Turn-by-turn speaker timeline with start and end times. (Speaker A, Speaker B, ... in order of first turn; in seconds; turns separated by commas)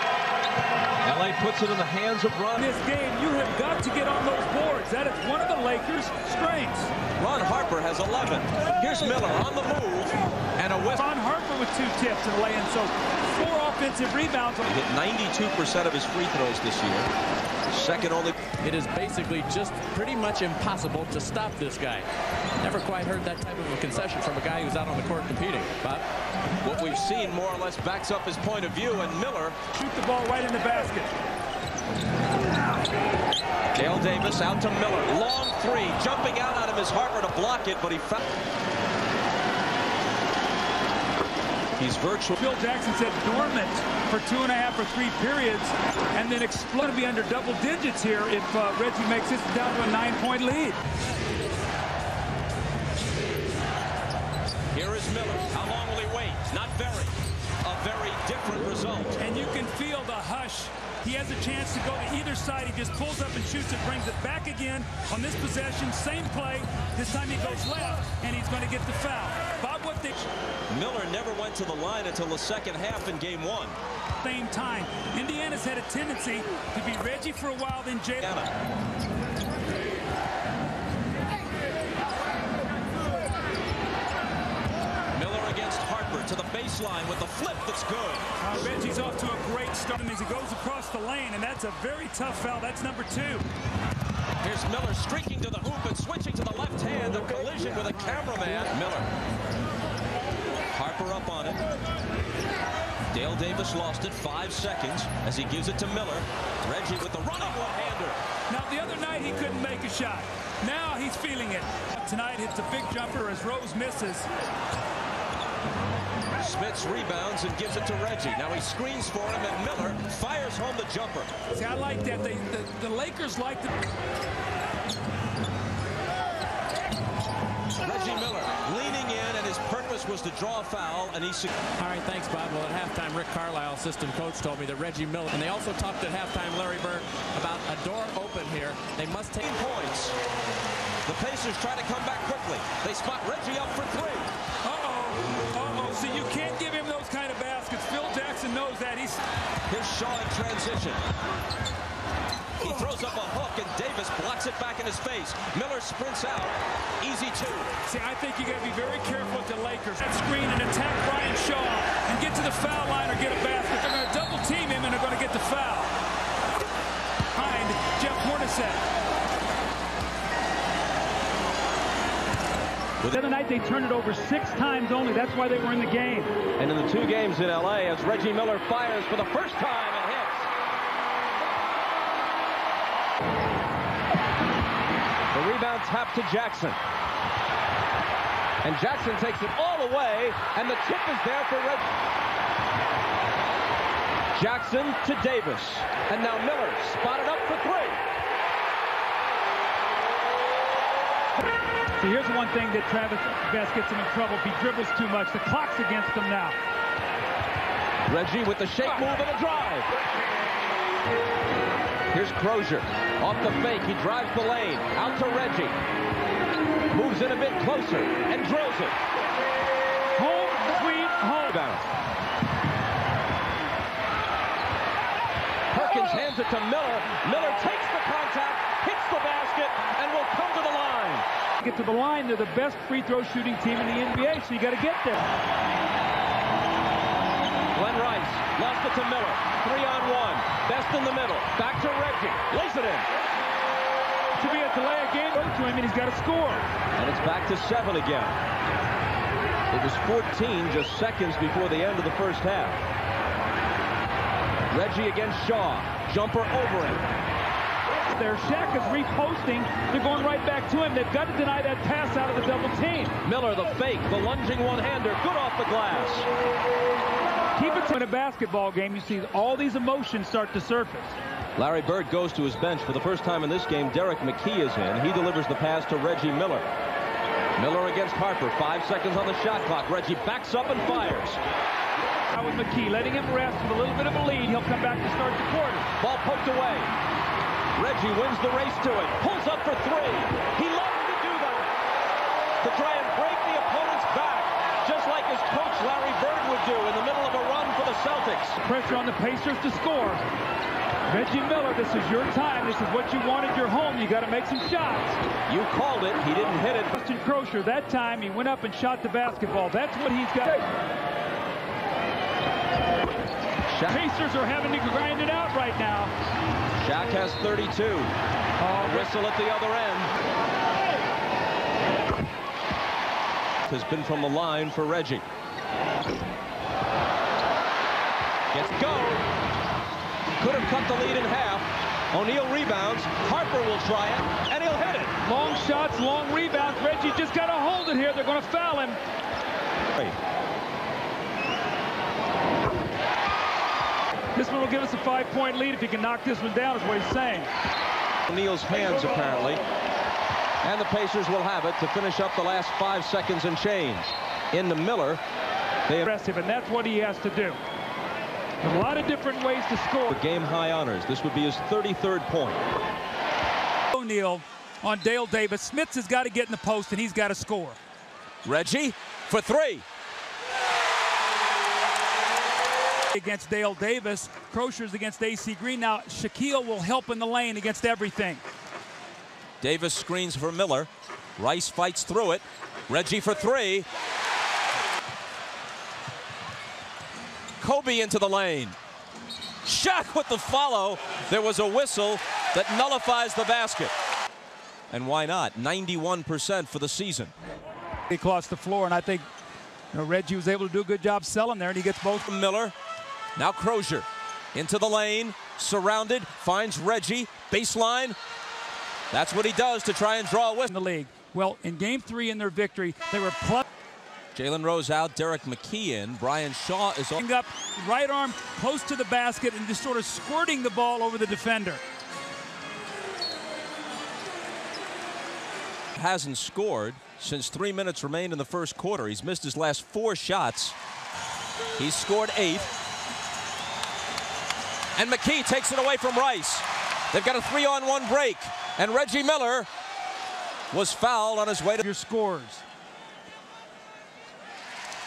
Speaker A: 1.0-2.7, Speaker B: 2.6-6.9, Speaker A: 7.2-11.1, Speaker B: 10.9-14.7, Speaker A: 14.6-17.1, Speaker A: 17.7-18.4, Speaker C: 18.6-22.1, Speaker C: 22.6-26.0, Speaker A: 26.6-29.6, Speaker B: 29.7-31.1, Speaker A: 33.7-38.2, Speaker A: 41.8-42.4, Speaker B: 42.4-50.8, Speaker A: 54.7-59.2, Speaker B: 59.2-70.3, Speaker A: 70.7-73.8, Speaker B: 74.2-78.3, Speaker A: 78.2-78.5, Speaker A: 85.1-88.3, Speaker B: 88.4-93.5, Speaker A: 94.4-99.1, Speaker A: 100.7-101.6, Speaker A: 103.1-108.2, Speaker B: 108.5-114.3, Speaker A: 116.4-121.3, Speaker B: 121.5-123.7, Speaker A: 127.8-131.5, Speaker C: 131.8-139.5, Speaker A: 139.4-140.2, Speaker A: 141.1-144.3, Speaker B: 144.6-149.2, Speaker A: 149.7-151.0, Speaker A: 152.6-157.7, Speaker B: 157.9-165.9, Speaker B: 167.3-168.8, Speaker B: 173.1-176.4, Speaker A: 176.6-180.5, Speaker A: 185.3-186.8, Speaker A: 188.6-191.9, Speaker A: 194.3-198.0, Speaker B: 202.0-206.6, Speaker A: 208.1-209.9, Speaker A: 212.1-215.8, Speaker A: 216.9-219.0, Speaker B: 220.2-221.6, Speaker A: 221.5-221.8, Speaker A: 225.7-231.3, Speaker B: 231.6-235.3, Speaker A: 237.7-243.1, Speaker B: 244.4-246.7, Speaker A: 247.0-248.4, Speaker A: 249.7-252.8, Speaker A: 254.7-257.1, Speaker B: 258.0-263.1, Speaker A: 263.2-266.3, Speaker B: 267.6-271.1, Speaker A: 271.6-276.6, Speaker A: 277.6-281.4, Speaker B: 282.3-285.9, Speaker A: 286.0-286.9, Speaker A: 287.8-291.7, Speaker A: 292.6-298.6, Speaker B: 298.6-300.2, Speaker B: 301.1-305.2, Speaker A: 305.5-306.9, Speaker B: 306.9-310.7, Speaker A: 313.7-314.0, Speaker B: 313.9-316.1, Speaker A: 316.8-318.1, Speaker B: 318.6-319.2, Speaker A: 318.8-320.1, Speaker A: 323.7-325.2, Speaker A: 328.5-329.2, Speaker A: 330.4-335.1, Speaker B: 335.2-339.0, Speaker B: 344.4-347.5, Speaker A: 348.3-349.6, Speaker A: 350.6-355.2, Speaker B: 356.0-357.6, Speaker B: 358.6-360.2, Speaker A: 360.1-362.6, Speaker B: 363.9-367.8, Speaker A: 368.4-369.8, Speaker B: 373.1-378.4, Speaker A: 379.6-383.9, Speaker A: 387.6-388.8, Speaker A: 389.6-393.9, Speaker A: 394.9-397.3, Speaker B: 398.1-399.3, Speaker B: 399.9-402.3, Speaker A: 402.2-402.7, Speaker A: 403.4-408.2, Speaker A: 409.1-410.7, Speaker B: 410.7-413.7, Speaker A: 414.3-417.2, Speaker B: 417.2-421.8, Speaker A: 425.9-430.8, Speaker A: 431.8-432.7, Speaker A: 435.0-439.7, Speaker A: 440.7-441.9, Speaker B: 441.8-442.6